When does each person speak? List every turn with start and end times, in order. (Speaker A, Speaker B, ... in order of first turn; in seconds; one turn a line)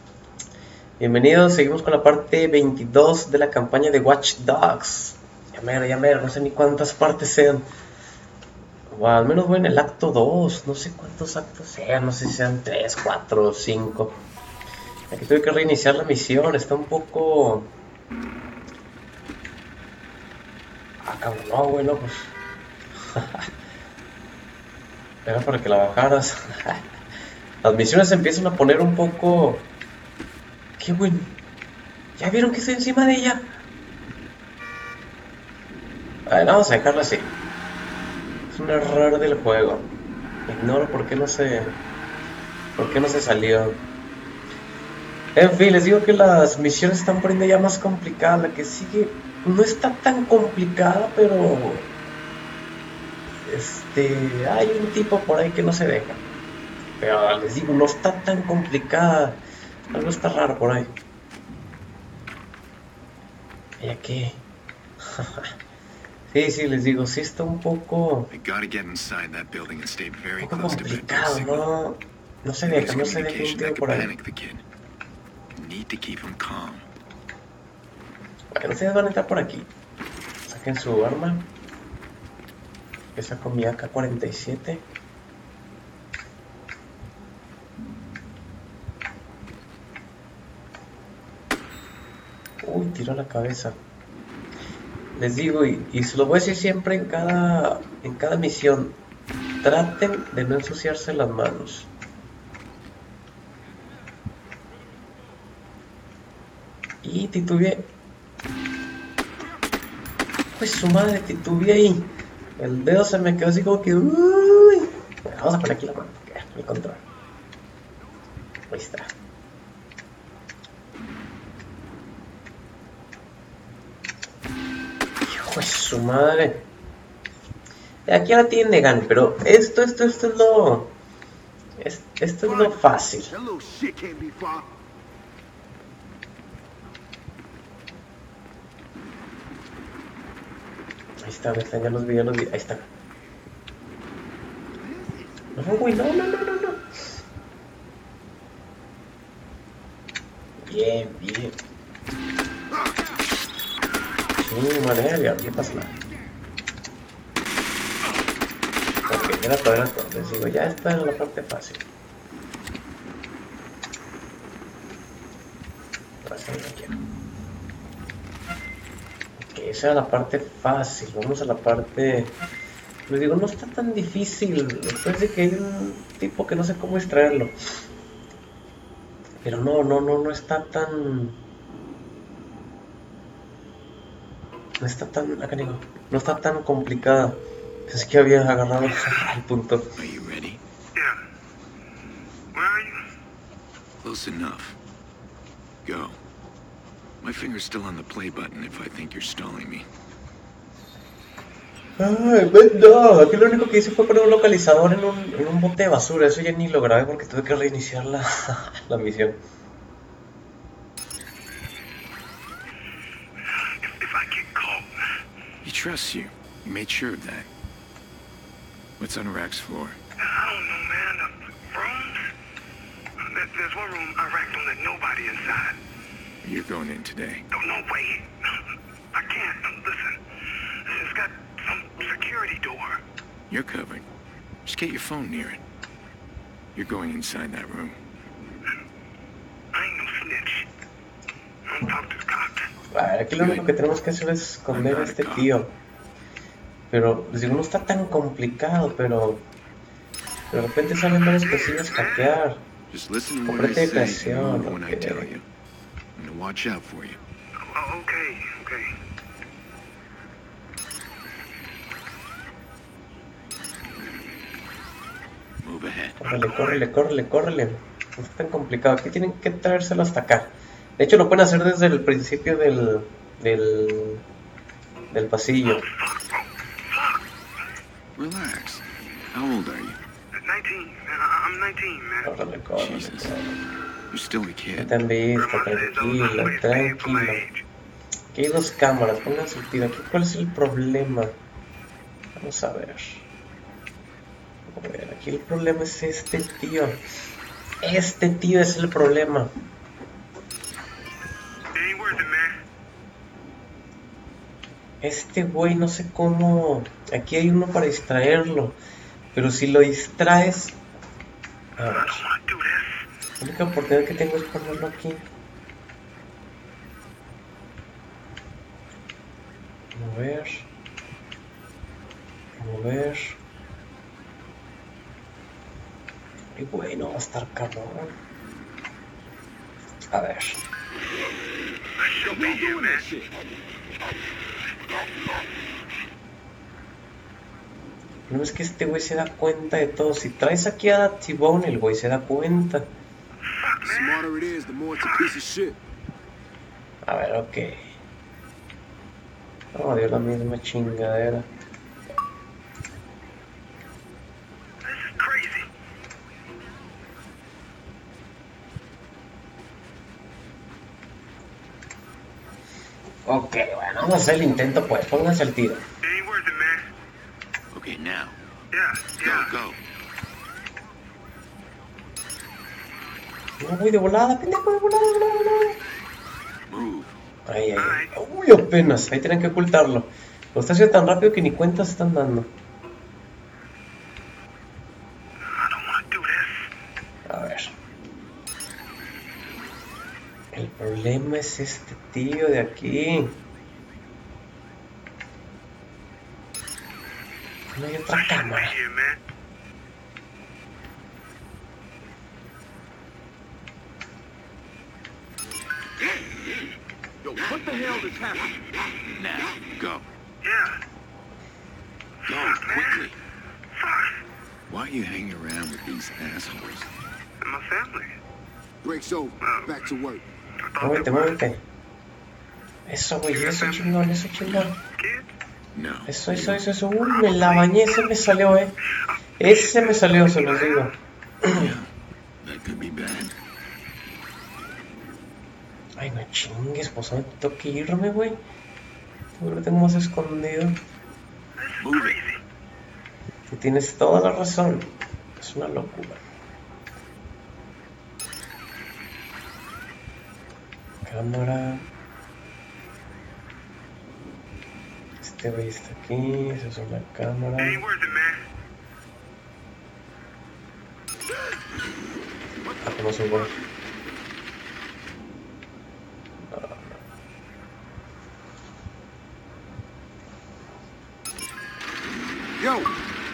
Speaker A: 1.0-7.7
Speaker A: 8.9-14.2
Speaker A: 15.1-17.7
Speaker A: 21.0-22.3
Speaker A: 23.1-23.5
Speaker A: 25.2-26.9
Speaker A: 27.6-29.7
Speaker A: 30.8-31.3
Speaker A: 32.2-33.6
Speaker A: 36.3-37.3
Speaker A: 38.5-39.9
Speaker A: 40.5-41.8
Speaker A: 42.8-43.8
Speaker A: 45.4-51.9
Speaker A: 53.5-56.2
Speaker A: 57.0-59.4
Speaker A: 59.9-60.9
Speaker A: 63.8-64.4
Speaker A: 65.0-65.5
Speaker A: 66.3-68.3
Speaker B: 68.3-71.7
Speaker A: 70.4-74.1
Speaker B: 72.7-74.6
Speaker B: 75.5-76.9
Speaker A: 78.5-79.7
Speaker A: 80.5-81.5
Speaker A: 83.2-84.8
Speaker A: 92.6-93.8
Speaker A: 95.1-99.0
Speaker A: 99.6-101.9
Speaker A: 107.0-107.9
Speaker A: 110.5-117.0
Speaker A: 118.7-119.1
Speaker A: 125.2-126.7
Speaker A: 128.1-130.9
Speaker A: 131.8-133.3
Speaker C: 132.4-134.7
Speaker A: 141.2-142.9
Speaker A: 145.6-146.8
Speaker A: 150.6-151.6
Speaker A: 154.4-156.0
Speaker A: 159.1-161.8
Speaker A: 166.2-166.9
Speaker A: 169.4-172.4
Speaker A: 173.1-177.6
Speaker A: 179.4-181.4
Speaker A: 184.8-189.9
Speaker B: 190.0-190.6
Speaker D: 192.5-193.0
Speaker B: 194.0-194.8
Speaker B: 195.8-196.2
Speaker B: 197.2-199.9
Speaker A: 202.0-209.4
Speaker D: 213.7-214.9
Speaker B: 215.6-217.5
Speaker B: 219.0-220.0
Speaker D: 220.2-222.3
Speaker D: 223.2-225.8
Speaker B: 226.4-227.4
Speaker D: 227.5-228.6
Speaker D: 229.1-230.2
Speaker D: 230.8-233.0
Speaker B: 233.5-234.1
Speaker B: 234.7-235.6
Speaker B: 236.8-238.0
Speaker D: 239.7-240.7
Speaker D: 241.7-242.7
Speaker A: 242.9-245.8
Speaker B: 243.4-243.7
Speaker B: 244.7-245.5
Speaker A: 246.9-249.5
Speaker A: 250.5-252.6
Speaker D: 251.4-252.3
Speaker B: 252.9-255.4
Speaker A: 253.5-255.3
Speaker B: 256.2-257.2
Speaker D: 257.6-258.9
Speaker B: 265.6-266.2
Speaker A: 266.2-274.2
Speaker D: 266.4-266.8
Speaker A: 275.1-275.9
Speaker D: 275.6-277.2
Speaker B: 278.2-280.0
Speaker D: 280.3-282.3
Speaker A: 282.2-283.6
Speaker B: 282.8-283.3
Speaker B: 284.1-284.9
Speaker A: 284.8-287.4
Speaker D: 285.4-287.6
Speaker A: 288.3-291.3
Speaker A: 292.4-293.3
Speaker A: 294.7-297.0
Speaker A: 297.8-299.5
Speaker D: 301.7-302.6
Speaker A: 305.0-308.8
Speaker A: 309.3-310.8
Speaker A: 311.8-312.3
Speaker D: 311.8-313.0
Speaker A: 313.4-315.3
Speaker A: 319.9-320.7
Speaker A: 322.6-323.4
Speaker A: 326.6-328.1
Speaker A: 330.1-330.6
Speaker D: 332.0-333.1
Speaker C: 332.2-333.3
Speaker A: 338.3-342.9
Speaker D: 343.5-344.2
Speaker C: 343.8-345.8
Speaker D: 345.0-345.3
Speaker A: 347.0-347.9
Speaker A: 349.7-351.5
Speaker D: 354.8-355.7
Speaker A: 363.3-365.8
Speaker D: 366.0-366.9
Speaker B: 367.7-368.4
Speaker D: 368.7-369.6
Speaker B: 369.2-369.8
Speaker A: 373.6-375.8
Speaker B: 376.7-377.1
Speaker A: 377.5-382.5
Speaker D: 377.8-378.1
Speaker D: 385.5-386.7
Speaker A: 387.3-387.8
Speaker A: 390.5-393.4
Speaker A: 397.7-398.8
Speaker D: 398.1-399.2
Speaker C: 407.2-408.6
Speaker B: 409.1-410.1
Speaker D: 410.4-410.8
Speaker B: 412.2-413.2
Speaker D: 412.3-413.1
Speaker D: 413.7-414.2
Speaker B: 414.7-416.9
Speaker D: 417.4-418.1
Speaker C: 418.8-420.2
Speaker D: 419.4-419.8
Speaker D: 420.6-421.4
Speaker A: 420.8-421.6
Speaker A: 422.9-424.8
Speaker D: 423.3-423.9
Speaker B: 424.5-424.7
Speaker D: 425.0-425.3
Speaker B: 425.7-426.6
Speaker A: 426.1-428.8
Speaker D: 427.0-427.9
Speaker D: 429.0-430.9
Speaker A: 429.4-431.7
Speaker B: 431.5-433.4
Speaker A: 436.0-438.4
Speaker A: 439.4-440.8
Speaker D: 441.6-442.4
Speaker B: 441.8-442.2
Speaker A: 443.5-446.2
Speaker A: 451.0-451.9
Speaker A: 455.2-457.8
Speaker D: 457.6-458.4
Speaker A: 462.8-463.5
Speaker A: 466.4-467.0
Speaker C: 472.6-472.9